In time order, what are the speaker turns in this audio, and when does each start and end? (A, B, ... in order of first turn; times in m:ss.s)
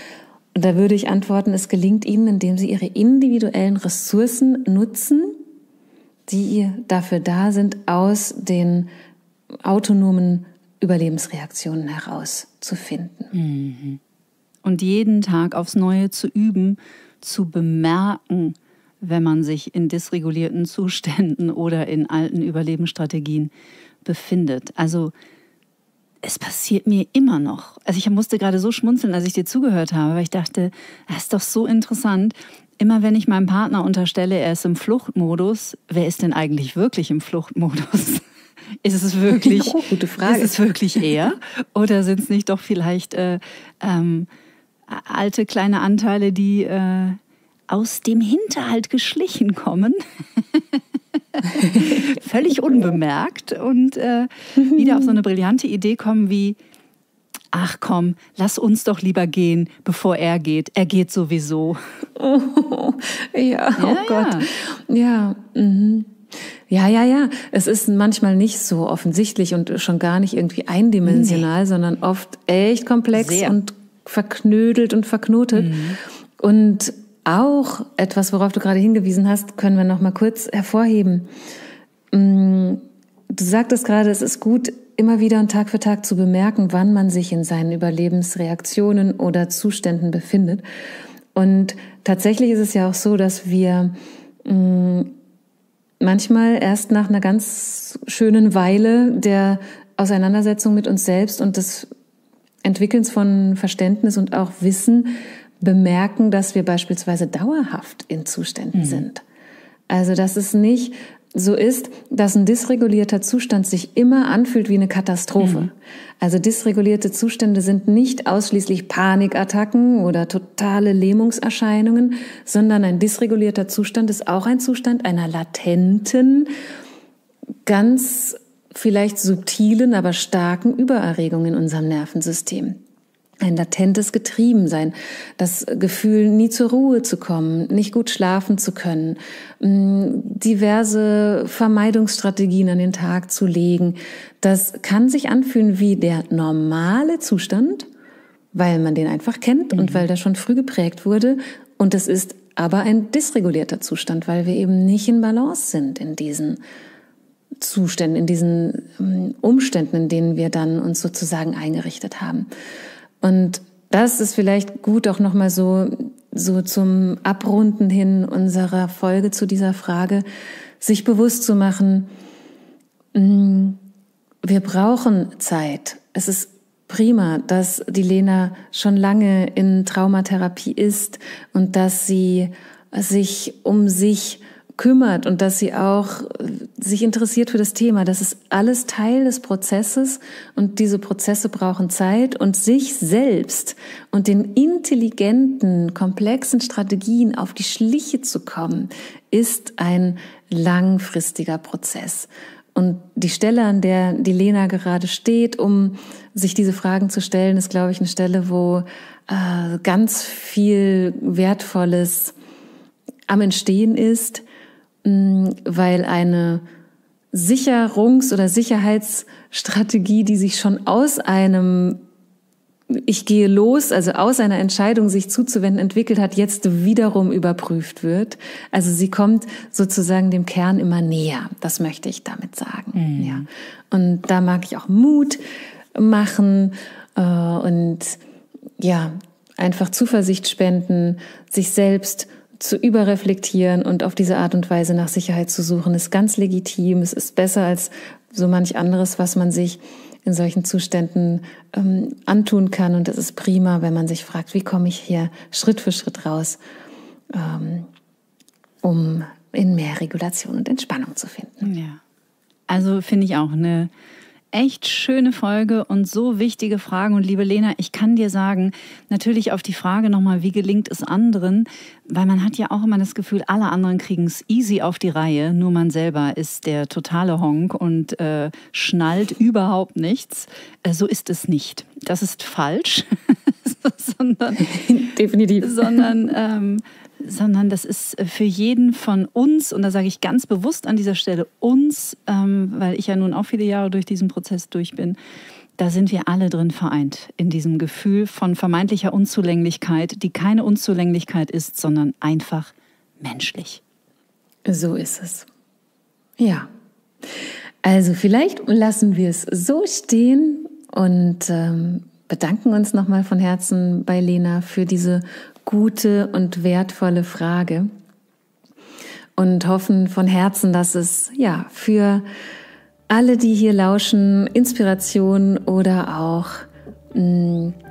0:00.5-0:05.4 A
0:06.3-0:08.9 A
0:09.6-0:13.3 A
0:13.3-0:14.0 B
0:14.6-0:23.5 B
0:24.0-0:25.1 B
0:26.2-0:38.2 B
0:38.8-0:44.3 B
0:39.3-0:40.6 A
0:44.9-0:56.6 B
0:54.6-0:55.1 A
0:57.5-1:01.8 B
1:02.2-1:06.1 A
1:03.8-1:04.5 B
1:06.7-1:21.3 A
1:11.0-1:11.4 B
1:13.1-1:13.6 B
1:15.5-1:16.0 B
1:22.1-1:30.6 A
1:31.3-1:33.9 A
1:34.4-1:35.1 A
1:36.0-1:41.9 A
1:42.6-1:49.2 A
1:48.8-1:49.0 B
1:49.9-2:06.5 A
1:55.4-1:55.7 B
2:07.6-2:12.8 A
2:13.4-2:27.9 A
2:28.5-2:36.6 A
2:29.8-2:30.0 B
2:37.6-2:42.5 A
2:43.2-2:50.2 A
2:50.8-2:52.1 A
2:53.1-2:53.8 A
2:54.4-3:32.3 A
3:33.3-3:34.4 A
3:35.0-3:36.6 A
3:37.3-3:42.0 A
3:42.9-3:55.4 A
3:52.9-3:53.4 B
3:55.9-3:58.2 A
3:58.8-4:16.6 A
4:17.3-4:17.9 A
4:18.8-4:21.7 A
4:21.6-4:22.0 B
4:22.7-4:23.9 B
4:24.5-4:44.7 B
4:44.6-4:46.1 A
4:45.6-4:55.2 B
4:55.8-5:03.8 B
5:04.6-5:05.5 A
5:06.4-5:06.7 A
5:07.8-5:17.9 A
5:19.4-5:22.2 A
5:23.1-5:27.8 A